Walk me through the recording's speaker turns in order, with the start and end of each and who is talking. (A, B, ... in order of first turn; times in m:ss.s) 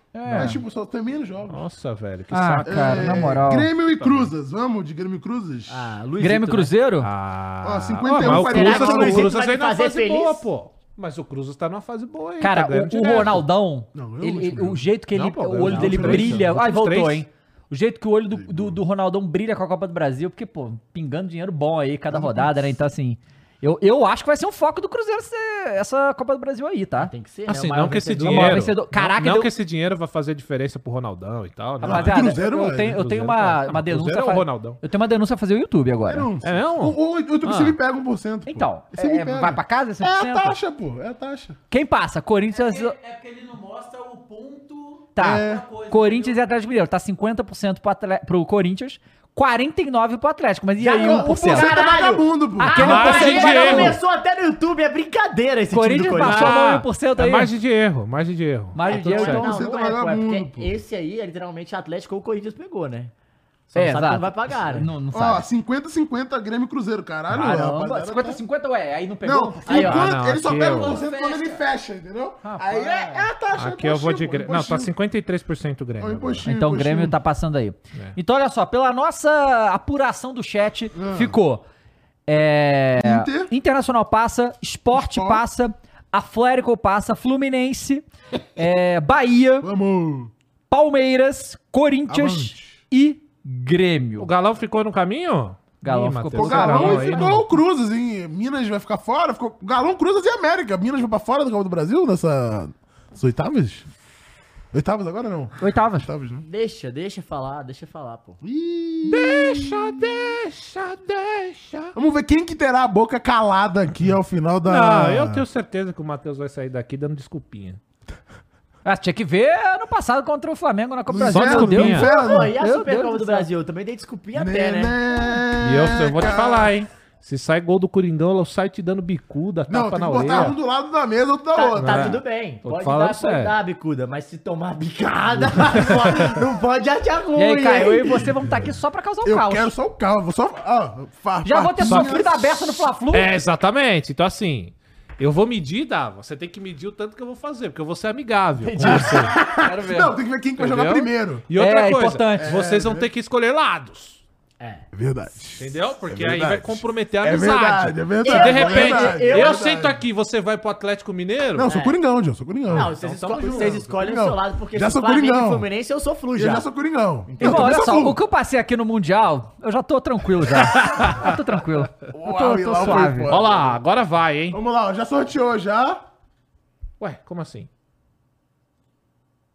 0:00.1-0:00.6 A
0:00.3-0:01.6 B
0:01.5-0:03.2 C
0:02.3-0:03.7 A
0:02.6-0:05.9 B
0:04.0-0:04.3 C
0:05.7-0:06.7 D
0:06.2-0:07.1 A
0:07.0-0:13.4 C
0:07.6-0:09.4 B
0:08.2-0:10.4 D
0:12.4-0:27.1 A
0:13.9-0:14.9 B
0:15.1-0:17.2 C
0:15.6-0:16.5 B
0:18.3-0:18.8 B
0:22.1-0:22.7 B
0:27.0-0:28.8 D
0:27.5-0:34.8 C
0:28.2-0:29.5 A
0:31.8-0:33.0 B
0:31.8-0:36.3 A
0:36.1-0:41.6 B
0:36.4-0:37.8 C
0:38.5-0:40.6 A
0:41.7-0:43.0 A
0:42.5-0:46.4 E
0:45.2-0:51.9 A
0:45.2-0:45.7 B
0:50.8-0:56.6 D
0:50.9-0:53.2 B
0:52.6-0:54.0 A
0:52.8-0:54.0 C
0:55.7-0:57.5 A
0:56.1-0:59.5 C
0:58.7-0:59.6 A
0:58.8-1:03.1 D
0:59.3-1:00.7 B
1:03.7-1:04.9 D
1:03.8-1:05.5 A
1:05.1-1:08.4 B
1:07.3-1:10.0 A
1:09.2-1:14.9 B
1:09.7-1:10.1 D
1:09.7-1:11.0 C
1:10.6-1:11.6 E
1:12.4-1:13.3 A
1:13.6-1:16.5 C
1:16.0-1:17.2 B
1:16.4-1:21.6 A
1:21.0-1:21.4 B
1:22.3-1:29.7 A
1:23.0-1:23.5 B
1:24.9-1:25.4 B
1:29.6-1:30.3 B
1:30.7-1:34.3 A
1:32.1-1:32.8 B
1:34.2-1:37.4 C
1:35.8-1:37.5 A
1:36.3-1:43.9 B
1:44.7-1:46.4 B
1:45.6-1:46.1 A
1:46.4-1:48.4 D
1:48.4-1:50.2 B
1:49.0-1:52.0 C
1:52.0-1:55.4 B
1:54.6-1:57.8 C
1:58.8-2:03.5 A
2:01.1-2:02.6 B
2:01.3-2:02.1 C
2:01.9-2:05.0 D
2:04.3-2:06.7 B
2:05.6-2:10.6 C
2:09.7-2:12.2 B
2:11.5-2:18.3 D
2:11.8-2:13.6 C
2:15.4-2:15.7 B
2:15.7-2:16.4 C
2:17.4-2:19.7 A
2:19.2-2:22.8 B
2:21.4-2:23.3 A
2:21.8-2:22.2 C
2:23.1-2:29.3 C
2:28.6-2:29.4 D
2:28.8-2:31.5 B
2:29.6-2:30.2 A
2:30.6-2:34.2 C
2:31.5-2:32.6 A
2:32.4-2:33.1 B
2:34.6-2:34.9 D
2:34.9-2:40.0 B
2:35.6-2:41.7 C
2:38.2-2:39.7 D
2:41.6-2:45.7 B
2:41.7-2:42.0 D
2:42.7-2:43.9 C
2:42.7-2:46.7 D
2:46.4-2:48.2 B
2:47.3-2:47.8 D
2:47.4-2:53.4 A
2:50.6-2:51.4 C
2:52.1-2:53.8 B
2:53.3-2:54.6 C
2:54.5-2:56.0 B
2:57.0-2:57.7 C